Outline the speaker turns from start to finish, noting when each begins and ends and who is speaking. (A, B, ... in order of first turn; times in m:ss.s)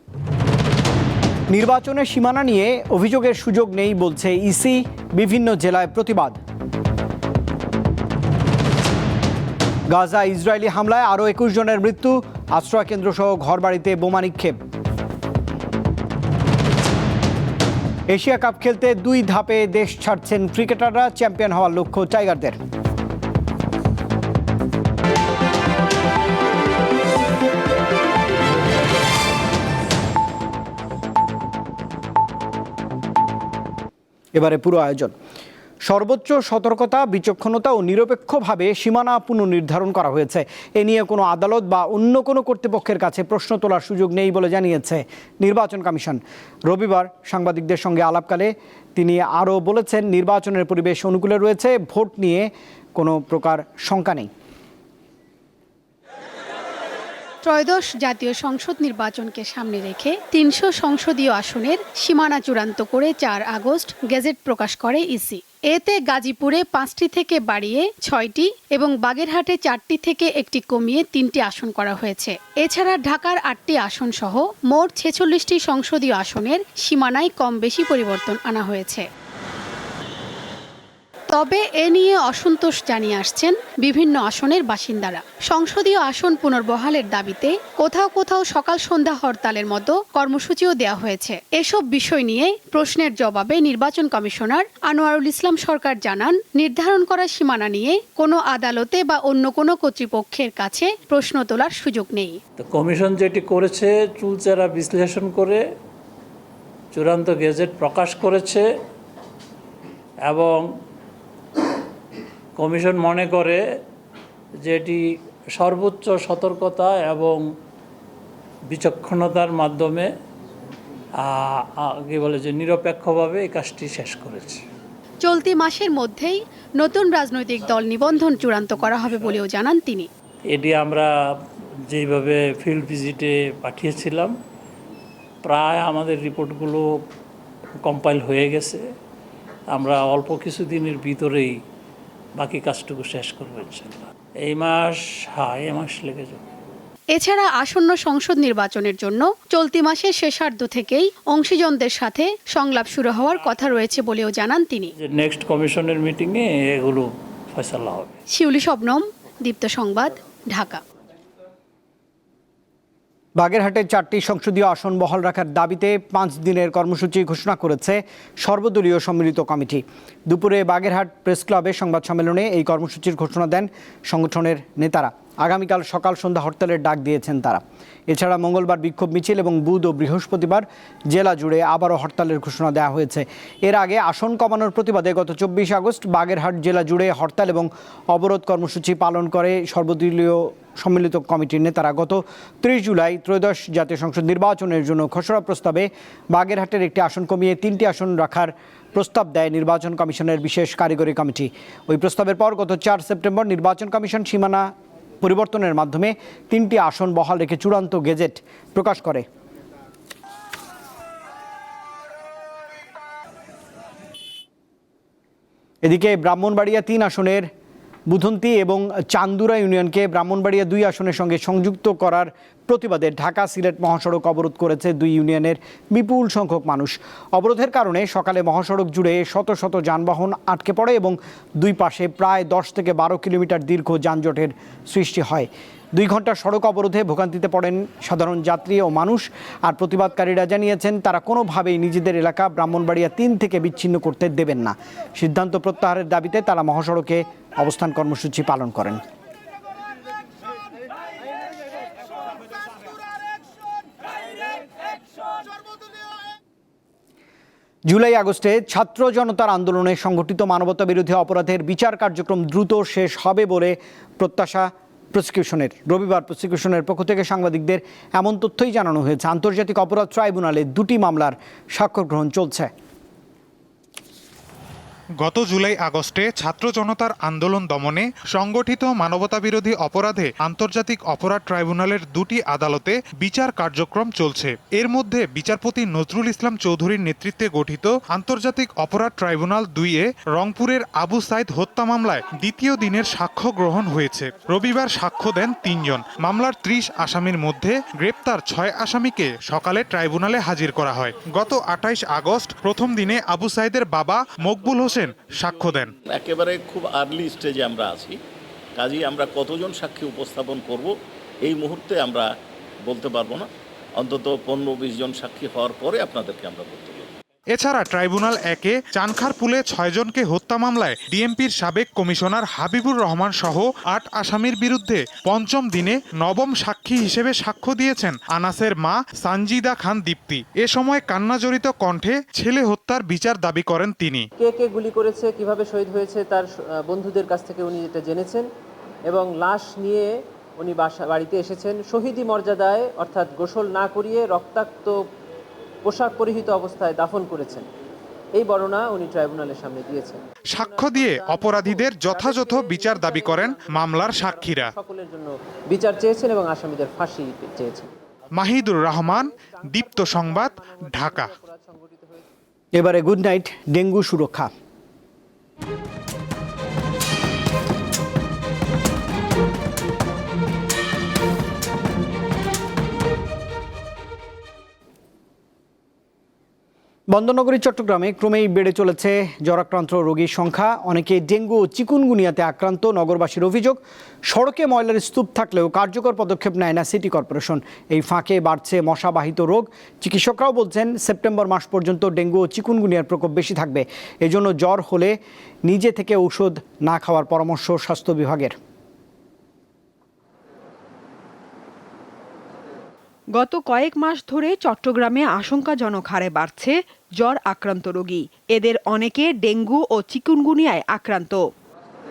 0:01.5-0:06.4 A
0:09.9-0:14.6 A
0:18.1-0:22.6 A
0:34.3-0:35.1 A
0:35.8-0:54.3 A
0:57.4-1:19.0 B
1:21.3-1:42.4 B
1:42.7-1:45.6 C
1:46.9-1:48.7 C
1:50.2-1:50.7 C
1:52.6-1:53.6 C
1:54.6-1:57.4 C
1:58.7-2:00.1 C
2:01.2-2:04.6 C
2:05.2-2:10.1 B
2:10.5-2:11.1 C
2:11.9-2:14.3 C
2:15.4-2:16.9 C
2:17.8-2:18.8 C
2:19.7-2:21.5 C
2:22.4-2:26.4 C
2:27.1-2:34.9 B
2:35.0-2:38.2 C
2:38.3-2:40.8 B
2:43.4-3:24.7 A
3:25.2-3:29.2 A
3:35.8-3:37.5 A
3:38.1-4:09.0 A
4:17.9-4:32.7 A
4:35.2-5:05.9 D
5:05.4-5:08.2 E
5:08.8-5:10.9 E
5:11.4-5:12.2 E
5:12.9-5:13.5 E
5:14.0-5:17.1 E
5:17.5-5:34.3 D
5:34.4-5:38.5 F
5:39.0-5:45.1 F
5:45.8-5:47.7 F
5:48.3-6:02.3 F
5:50.5-5:54.7 D
5:58.3-6:01.4 D
6:02.8-6:04.5 A
6:17.1-6:38.6 A
6:43.4-6:51.4 G